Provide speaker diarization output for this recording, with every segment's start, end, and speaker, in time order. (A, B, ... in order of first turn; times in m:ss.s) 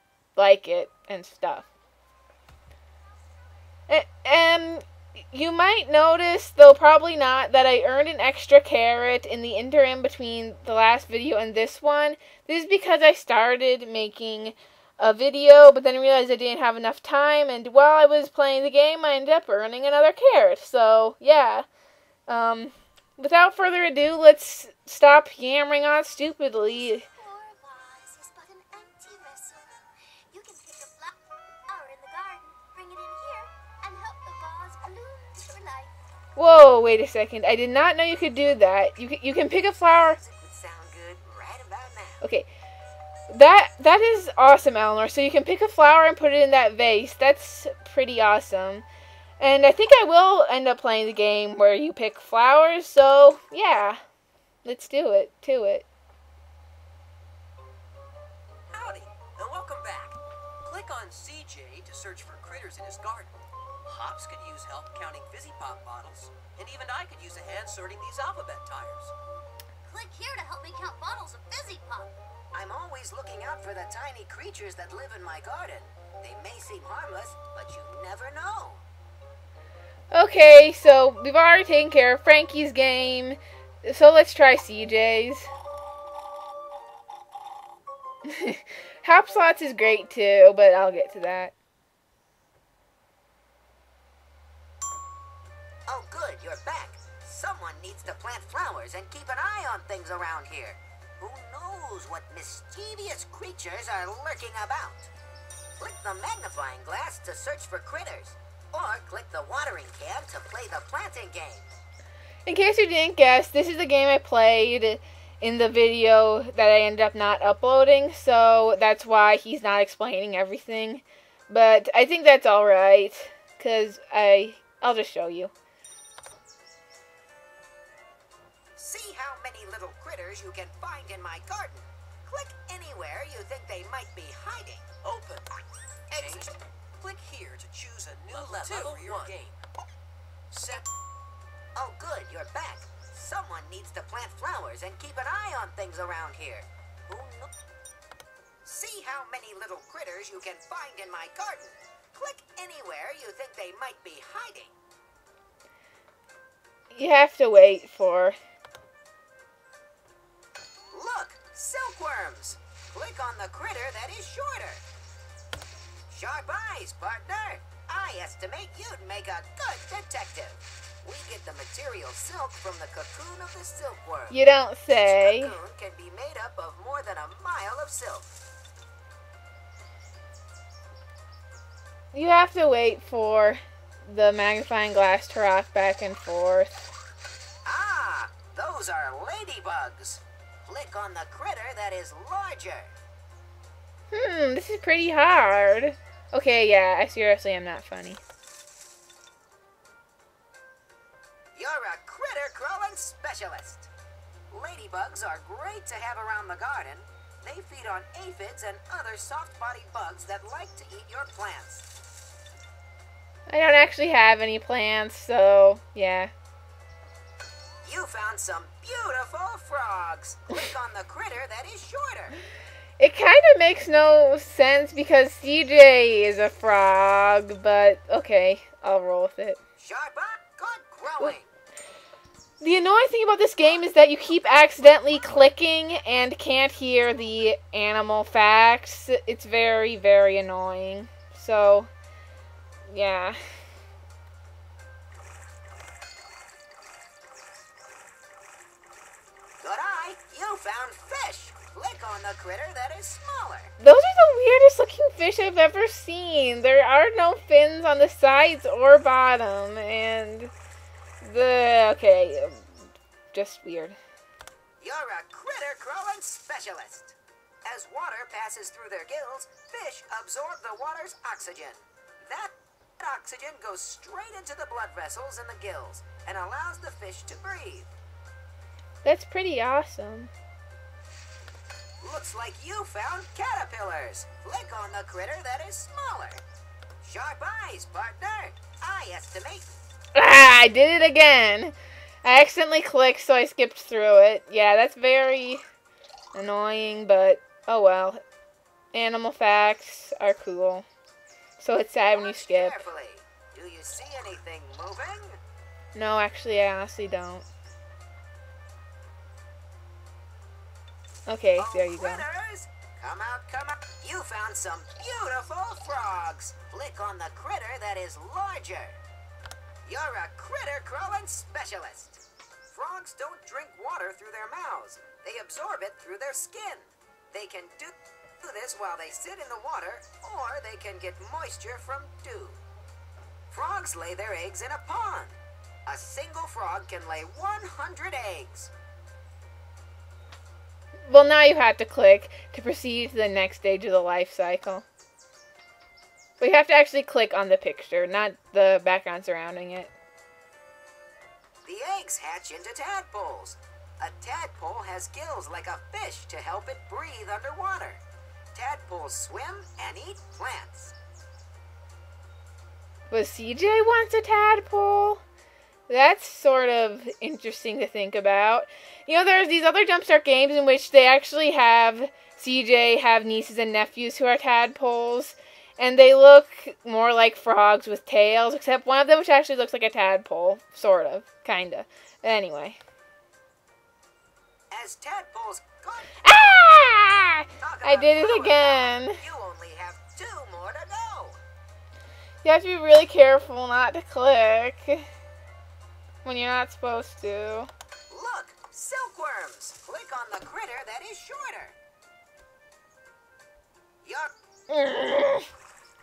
0:00.4-0:01.7 A
0:03.9-0:21.6 A
0:22.3-0:27.0 A
0:27.1-0:31.2 B
0:31.7-0:36.0 B
0:36.4-0:40.2 A
0:39.9-0:42.2 C
0:42.2-0:42.5 A
0:43.3-0:48.8 A
0:49.4-0:54.0 A
0:54.6-0:55.8 A
0:58.7-1:09.1 D
1:09.8-1:12.1 B
1:12.5-1:18.8 C
1:20.1-1:25.5 A
1:28.2-1:31.5 A
1:35.9-1:45.1 C
1:45.8-1:51.8 C
1:52.4-2:05.5 A
2:08.8-2:14.9 C
2:15.0-2:15.5 D
2:16.1-2:16.5 C
2:16.1-2:19.6 D
2:18.3-2:19.3 C
2:20.5-2:20.9 D
2:21.7-2:27.5 C
2:28.6-2:34.7 C
2:36.9-2:38.4 A
2:40.9-2:44.8 C
2:46.1-2:54.4 C
2:54.3-2:55.6 A
2:55.0-2:58.4 C
3:02.1-3:06.9 A
3:07.6-3:12.9 C
3:14.1-3:18.2 A
3:21.5-3:23.9 C
3:24.5-3:31.8 C
3:33.5-3:36.3 A
3:37.8-3:42.4 C
3:43.0-3:49.6 A
3:49.8-3:51.5 C
3:52.6-4:01.9 A
4:02.9-4:03.4 A
4:09.6-4:13.7 C
4:13.8-4:20.5 A
4:21.2-4:22.7 A
4:23.3-4:24.0 A
4:24.8-4:37.9 C
4:39.0-4:40.3 A
4:42.0-4:46.4 C
4:47.0-4:49.8 C
4:50.1-4:55.6 A
4:56.3-4:58.2 A
4:58.9-5:00.9 A
5:01.6-5:02.8 A
5:02.0-5:05.4 C
5:05.9-5:07.5 A
5:11.2-5:12.2 A
5:11.6-5:19.0 C
5:19.8-5:32.6 C
5:33.5-5:38.7 C
5:41.1-5:44.8 A
5:46.4-5:49.9 A
5:51.6-5:58.0 C
5:58.5-6:00.9 C
6:03.1-6:05.2 A
6:05.9-6:22.8 A
6:24.7-6:26.2 C
6:26.2-6:29.2 A
6:27.6-6:31.4 C
6:32.4-6:35.0 A
6:36.2-6:37.7 A
6:38.1-6:41.8 C
6:44.0-6:44.3 C
6:44.7-6:45.5 A